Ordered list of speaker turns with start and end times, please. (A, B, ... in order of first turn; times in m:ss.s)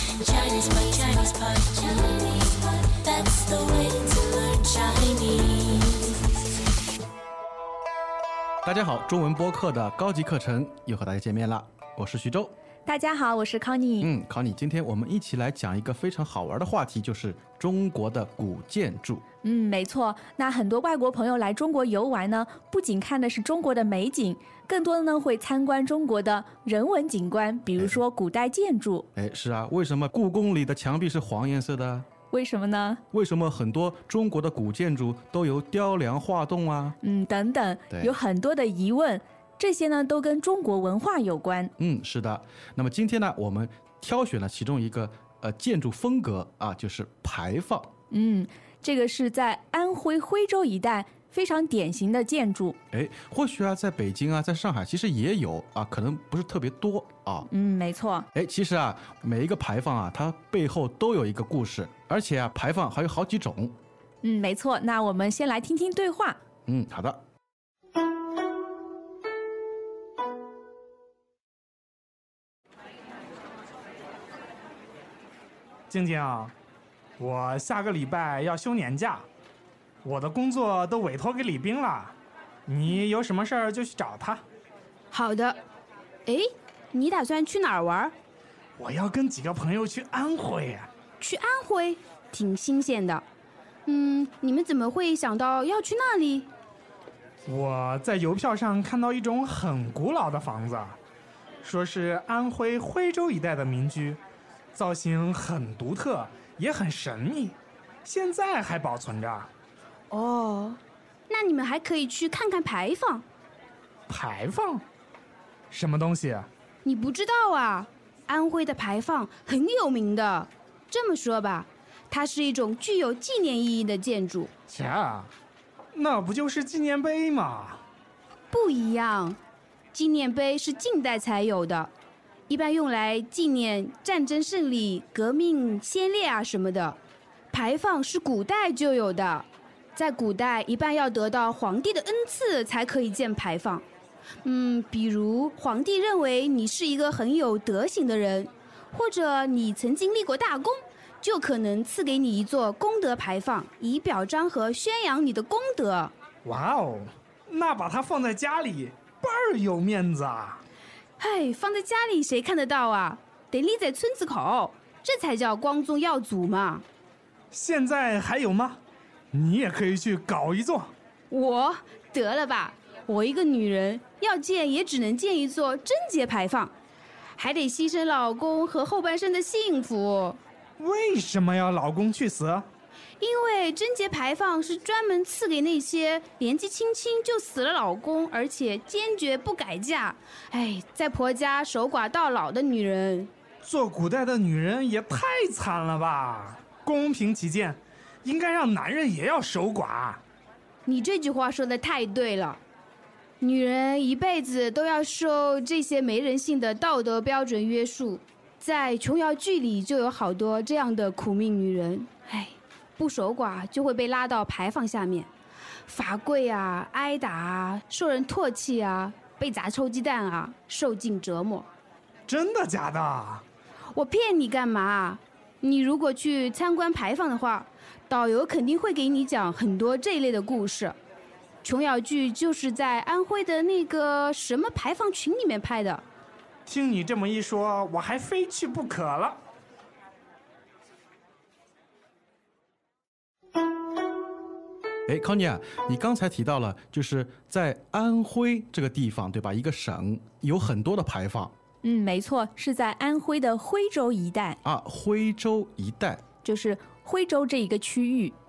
0:00.2-0:06.2 A
0:08.6-0:12.5 B
0:12.8-0:14.1 C
0:14.0-0:19.2 B
0:19.4-0:29.1 C
0:27.8-0:28.0 B
0:29.1-0:32.0 B
0:32.3-0:33.0 C
0:33.1-0:37.0 B
0:37.0-0:41.7 C
0:37.9-0:38.2 B
0:41.8-0:47.9 B
0:48.1-0:52.8 C
0:52.9-0:57.5 B
0:57.5-0:58.3 C
0:58.3-1:03.7 B
1:04.2-1:06.4 C
1:06.7-1:07.2 B
1:15.9-1:16.5 D
1:17.2-1:19.3 D
1:20.0-1:22.2 D
1:22.7-1:24.4 D
1:25.1-1:25.6 E
1:26.2-1:28.1 E
1:28.8-1:30.9 D
1:31.2-1:33.2 E
1:33.8-1:36.5 E
1:37.4-1:41.0 D
1:41.6-1:44.2 D
1:44.7-1:49.5 D
1:50.1-1:53.2 E
1:54.1-1:54.8 D
1:55.7-1:56.5 D
1:56.8-2:04.5 E
2:04.7-2:05.3 D
2:05.9-2:07.8 D
2:08.5-2:09.4 E
2:09.9-2:11.9 E
2:12.5-2:17.0 E
2:17.5-2:23.8 E
2:24.4-2:36.1 E
2:36.4-2:40.6 D
2:41.2-2:46.8 E
2:47.5-2:48.8 D
2:49.3-2:50.9 D
2:51.3-2:56.7 E
2:57.4-3:00.4 E
3:00.8-3:02.7 D
3:03.2-3:13.3 E
3:13.6-3:20.2 D
3:20.8-3:22.6 E
3:23.4-3:35.3 E
3:35.9-3:41.7 E
3:42.3-3:43.4 D
3:43.9-3:51.0 E
3:51.6-3:56.0 E
3:56.6-3:59.4 D
4:05.1-4:11.5 B
4:11.8-4:14.6 C
4:14.6-4:16.2 B
4:16.4-4:18.4 C